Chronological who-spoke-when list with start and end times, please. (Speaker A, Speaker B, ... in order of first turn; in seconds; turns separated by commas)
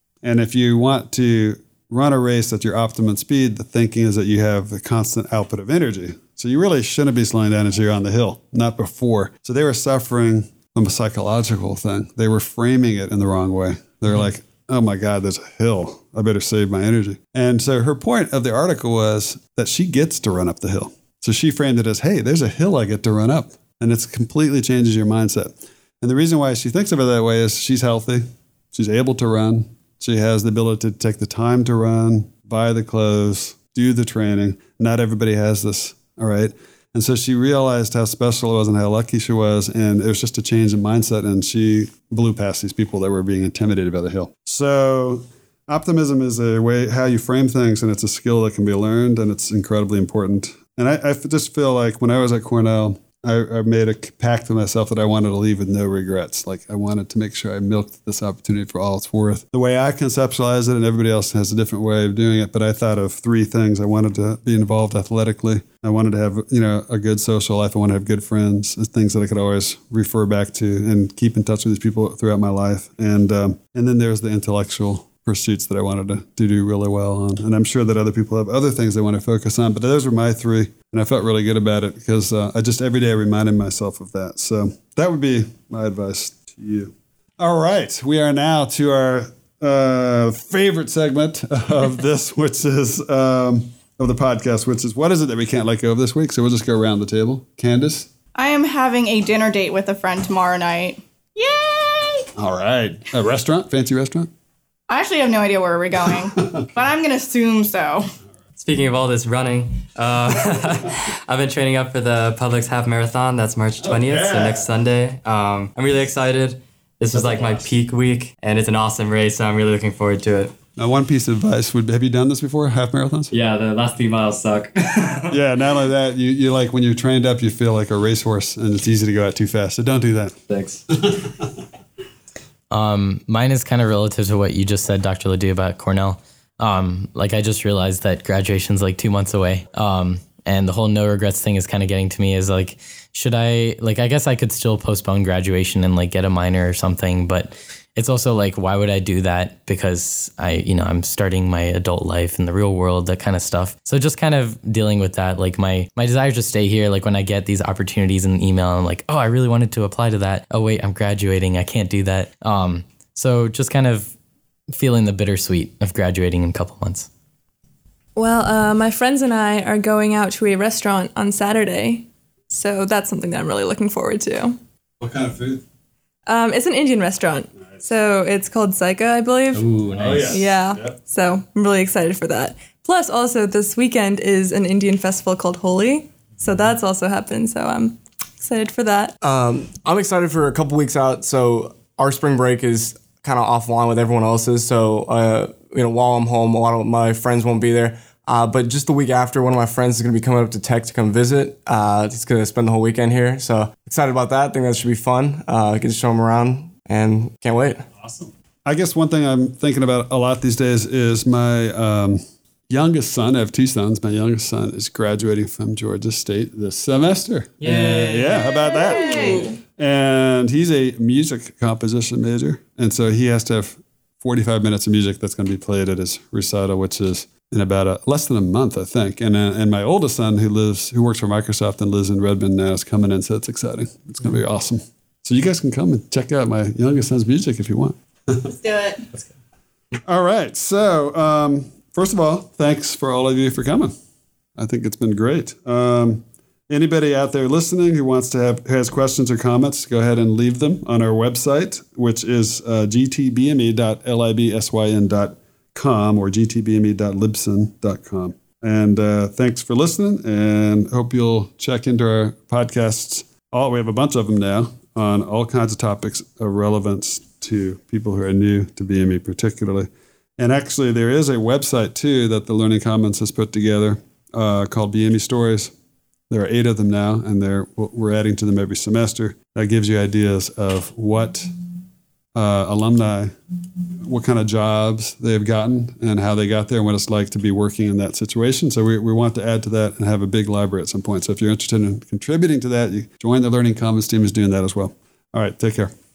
Speaker A: 0.2-98.1, Speaker B: 98.3-102.3, Speaker A: 102.4-104.3, Speaker B: 104.9-108.1, Speaker C: 108.6-120.5, Speaker A: 113.8-114.7, Speaker A: 117.1-117.6, Speaker A: 120.8-123.3, Speaker C: 123.3-125.4, Speaker A: 125.3-131.4, Speaker C: 130.5-130.8, Speaker D: 132.7-164.1, Speaker D: 164.7-167.1, Speaker E: 168.2-174.6, Speaker A: 175.0-175.6, Speaker E: 176.3-189.2, Speaker D: 179.7-180.3, Speaker A: 179.9-181.0, Speaker F: 189.2-207.9, Speaker A: 208.0-238.5, Speaker C: 217.6-218.4, Speaker E: 219.0-219.6, Speaker B: 238.5-239.0, Speaker A: 240.1-243.9, Speaker A: 244.6-275.7, Speaker A: 276.3-281.5, Speaker A: 282.3-283.4, Speaker A: 284.0-295.9